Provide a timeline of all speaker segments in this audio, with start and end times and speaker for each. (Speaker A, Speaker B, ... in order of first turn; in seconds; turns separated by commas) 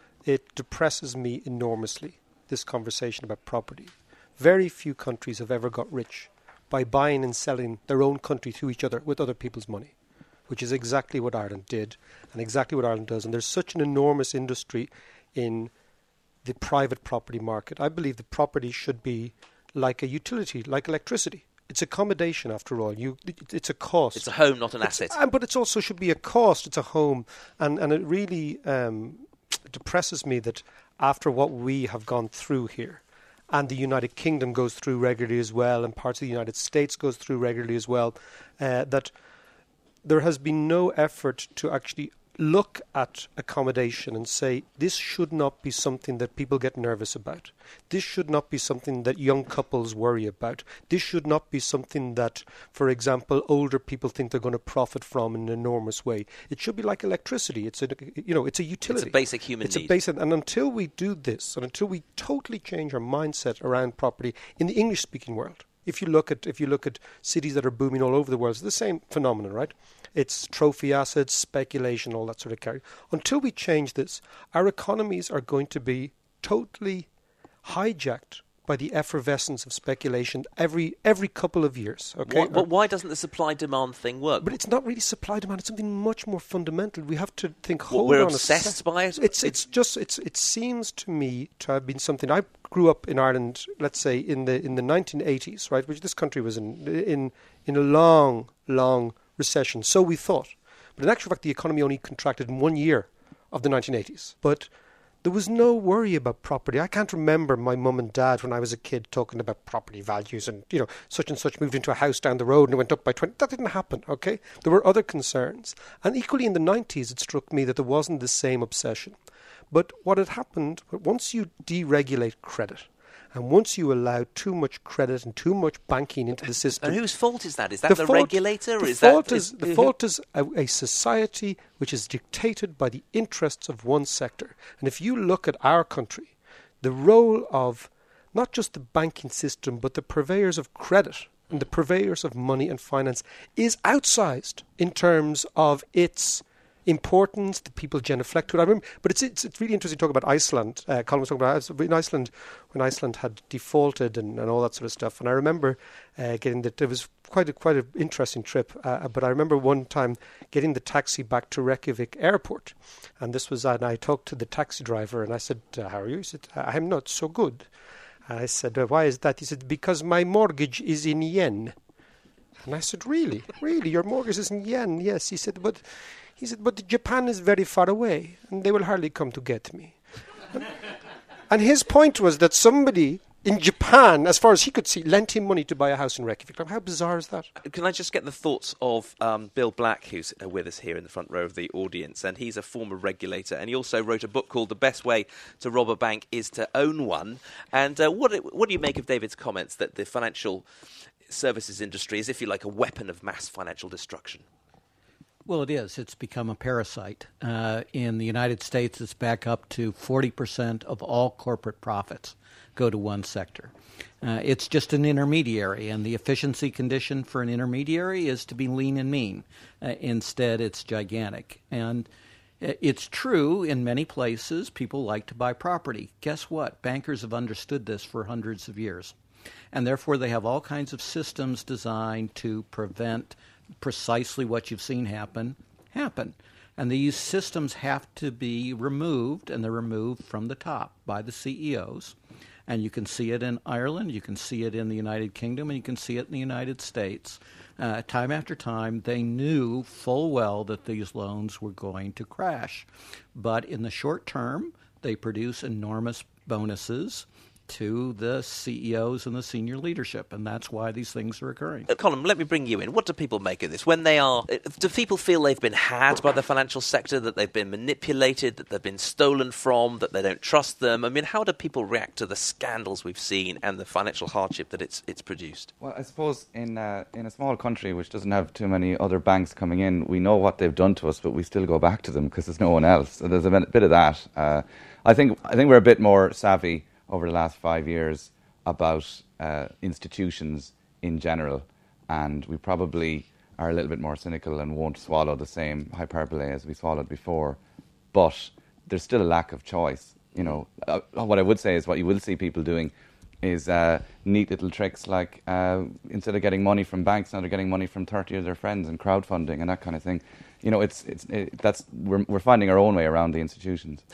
Speaker A: 0.2-9.9, Speaker A: 10.5-15.7, Speaker A: 16.4-24.3, Speaker B: 24.1-25.2, Speaker A: 24.8-39.1, Speaker A: 40.0-77.1, Speaker B: 58.9-59.9, Speaker A: 77.6-82.7, Speaker B: 82.3-84.6, Speaker A: 84.4-104.7, Speaker B: 87.9-89.7, Speaker A: 105.2-119.2, Speaker A: 119.7-127.0, Speaker B: 126.8-129.9, Speaker A: 127.9-167.7, Speaker A: 168.3-171.8, Speaker A: 172.6-180.0, Speaker A: 181.5-187.5, Speaker B: 187.6-200.7, Speaker B: 201.3-204.4, Speaker C: 205.5-222.1, Speaker C: 222.6-229.2, Speaker C: 229.7-242.2, Speaker C: 242.7-261.9, Speaker B: 261.9-275.7, Speaker D: 275.8-297.6, Speaker D: 298.1-302.9, Speaker D: 303.4-314.0